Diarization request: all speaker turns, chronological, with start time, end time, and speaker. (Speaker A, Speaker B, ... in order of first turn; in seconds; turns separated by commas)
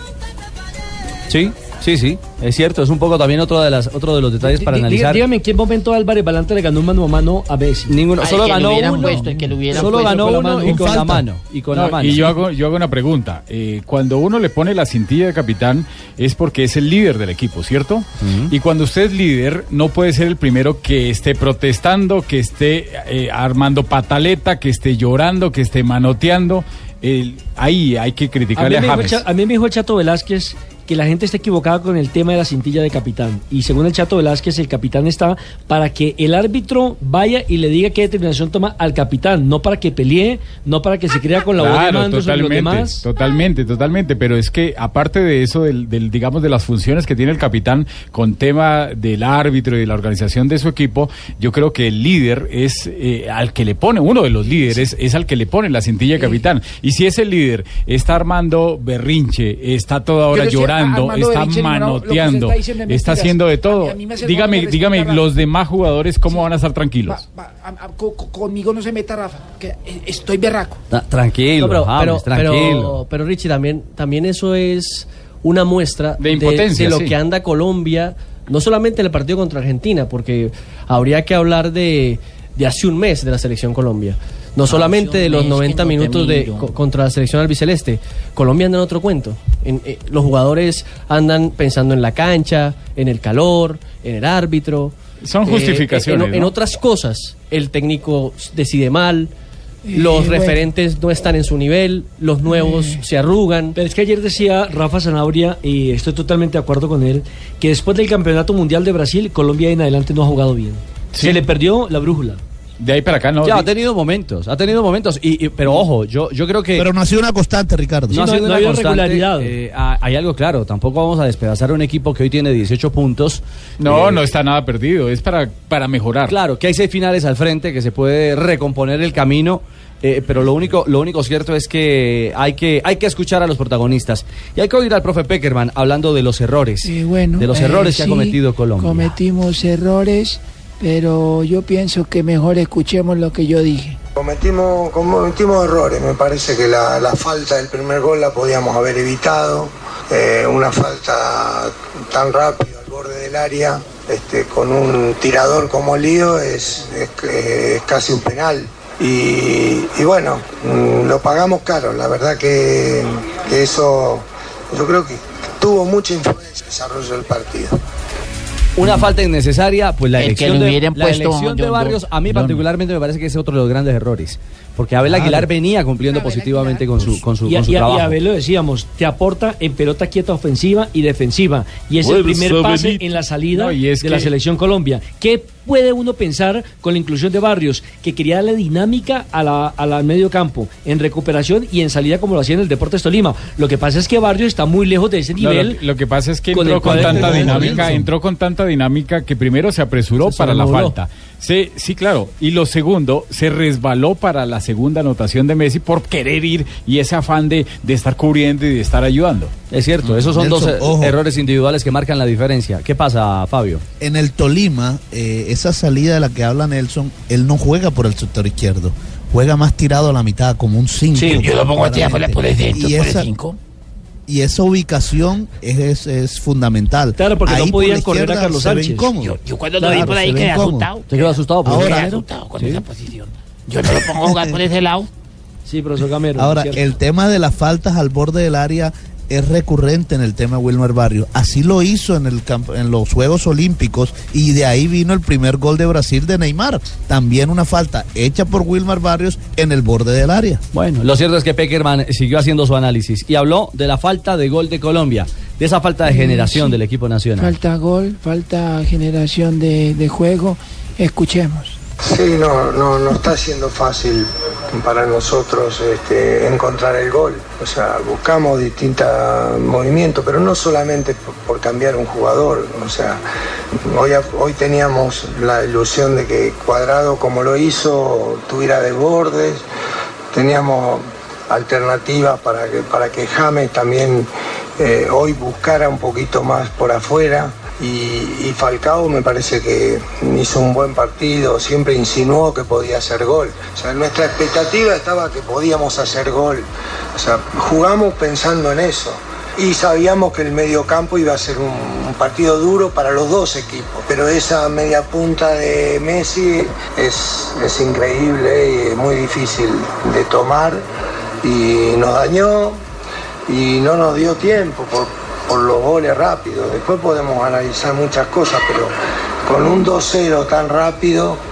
Speaker A: 1.3-5.2, Speaker B: 4.4-8.0, Speaker A: 7.9-12.4, Speaker C: 8.2-10.4, Speaker B: 8.9-11.1, Speaker D: 10.7-11.2, Speaker E: 11.7-29.2, Speaker A: 18.2-18.5, Speaker B: 28.6-43.0, Speaker E: 41.6-67.2, Speaker F: 60.3-65.3, Speaker F: 67.1-70.8, Speaker A: 70.9-73.0, Speaker G: 71.6-99.3, Speaker E: 76.2-77.1, Speaker C: 84.7-86.7, Speaker E: 95.2-96.5, Speaker F: 99.8-100.6, Speaker G: 99.9-103.7, Speaker F: 102.5-103.0, Speaker B: 103.7-112.4, Speaker E: 111.1-111.4, Speaker E: 112.8-113.7, Speaker A: 113.4-116.9, Speaker D: 116.7-118.2, Speaker A: 118.1-124.3, Speaker B: 118.1-119.5, Speaker E: 123.8-126.3, Speaker A: 126.3-139.2, Speaker F: 136.8-144.0, Speaker H: 144.2-167.8, Speaker A: 168.8-178.2, Speaker C: 170.2-172.6, Speaker D: 175.0-175.5, Speaker C: 176.1-176.8, Speaker B: 177.4-195.8, Speaker E: 182.0-184.3, Speaker E: 195.4-209.5, Speaker B: 196.5-197.9, Speaker D: 196.9-198.1, Speaker B: 200.3-200.9, Speaker A: 209.7-213.8, Speaker D: 210.1-211.2, Speaker D: 214.0-223.3, Speaker C: 221.2-223.6, Speaker D: 224.3-230.9, Speaker B: 227.2-229.1, Speaker C: 229.2-235.1, Speaker B: 229.8-230.2, Speaker A: 231.1-232.8, Speaker D: 231.6-232.2, Speaker D: 234.1-234.6, Speaker B: 235.7-236.9, Speaker D: 236.3-250.6, Speaker A: 250.7-257.6, Speaker F: 256.1-256.8, Speaker F: 257.4-261.8, Speaker H: 262.0-273.2, Speaker H: 273.9-279.6, Speaker H: 280.3-284.3, Speaker H: 284.8-296.6, Speaker H: 297.1-310.8, Speaker H: 311.4-312.8, Speaker H: 313.5-318.9, Speaker H: 319.4-321.4